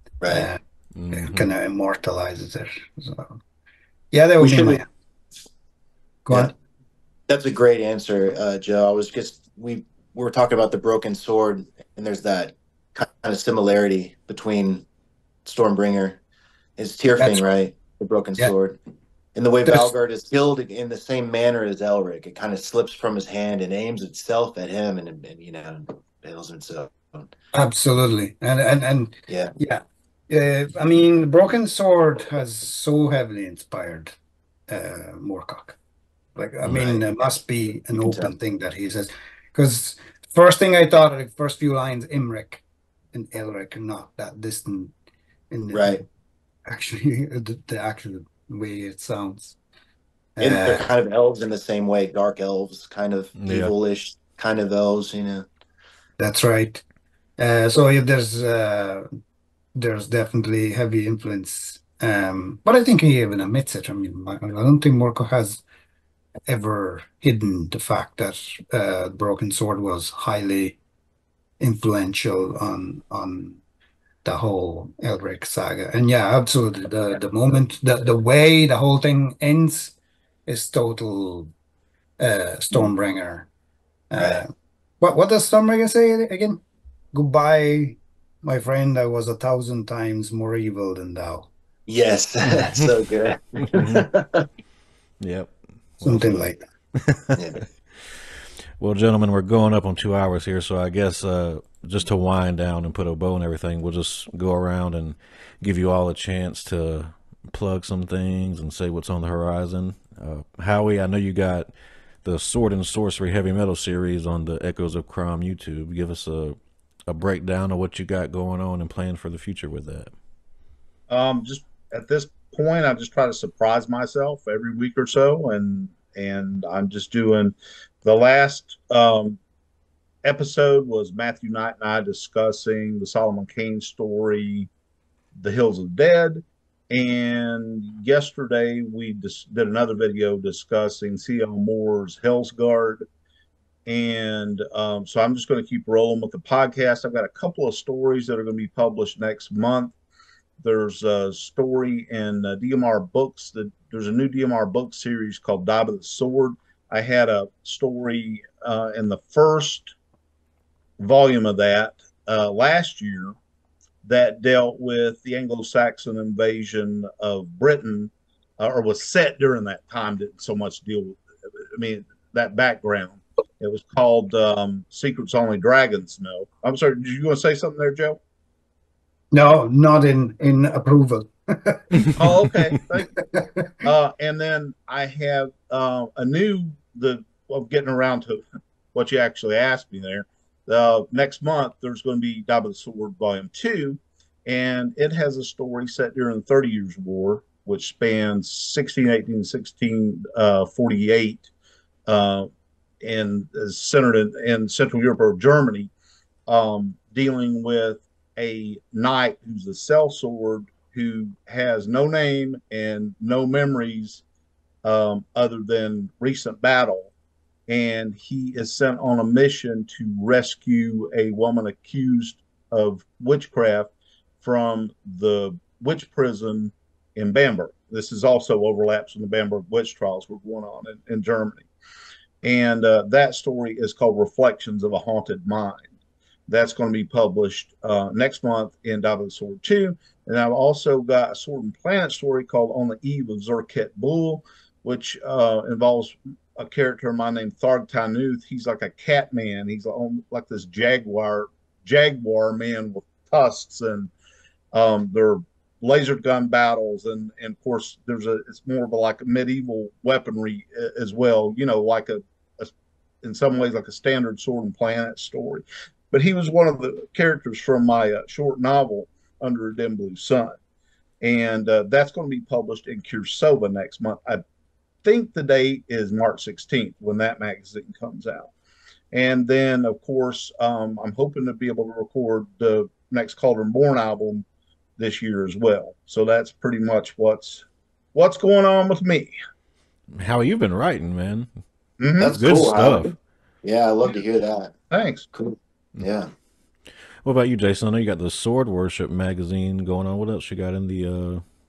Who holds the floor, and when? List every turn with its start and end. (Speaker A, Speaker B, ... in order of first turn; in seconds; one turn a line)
Speaker A: 0.2-0.5
Speaker B: 0.2-0.6
Speaker C: 0.9-1.5
Speaker B: 1.1-3.4
Speaker B: 4.1-4.8
Speaker A: 4.4-4.8
Speaker B: 6.2-6.5
Speaker A: 7.3-14.8
Speaker A: 15.4-16.2
Speaker A: 16.8-18.8
Speaker A: 19.3-27.3
Speaker B: 19.6-19.9
Speaker B: 27.5-34.1
Speaker A: 29.3-29.5
Speaker B: 34.7-35.8
Speaker B: 36.4-44.9
Speaker A: 36.6-37.0
Speaker A: 38.0-38.3
Speaker B: 45.5-46.0
Speaker A: 45.7-46.0
Speaker B: 46.7-49.5
Speaker B: 50.4-50.9
Speaker A: 50.4-55.5
Speaker C: 53.4-53.7
Speaker B: 56.2-56.8
Speaker B: 57.4-59.1
Speaker B: 59.7-65.6
Speaker B: 66.5-70.8
Speaker B: 71.6-73.6
Speaker B: 74.2-79.9
Speaker B: 80.5-81.5
Speaker B: 82.2-83.5
Speaker B: 84.1-84.5
Speaker B: 85.0-86.6
Speaker B: 87.1-91.5
Speaker A: 91.9-94.5
Speaker C: 93.7-94.0
Speaker C: 95.2-96.5
Speaker B: 96.0-96.6
Speaker C: 97.1-97.4
Speaker A: 97.3-97.6
Speaker C: 98.8-111.7
Speaker C: 112.2-116.6
Speaker C: 117.1-120.1
Speaker D: 121.1-129.4
Speaker D: 130.2-134.7
Speaker D: 135.4-143.0
Speaker D: 143.8-149.9
Speaker D: 150.6-159.9
Speaker D: 161.0-163.3
Speaker D: 164.0-171.2
Speaker D: 171.7-178.2
Speaker B: 179.3-181.9
Speaker D: 182.2-183.1
Speaker B: 183.2-183.7
Speaker D: 183.8-188.4
Speaker D: 188.9-201.4
Speaker D: 202.1-202.5
Speaker D: 203.0-205.9
Speaker D: 206.5-214.2
Speaker D: 214.8-217.1
Speaker D: 217.7-231.7
Speaker D: 232.4-235.9
Speaker D: 236.5-254.1
Speaker D: 254.7-270.6
Speaker D: 271.2-274.4
Speaker D: 275.0-278.5
Speaker D: 279.1-284.4
Speaker D: 285.0-289.3
Speaker C: 290.1-291.5
Speaker D: 292.0-292.3
Speaker A: 292.2-294.7
Speaker C: 292.3-293.1
Speaker D: 294.9-295.2
Speaker A: 295.3-296.3
Speaker C: 297.2-301.4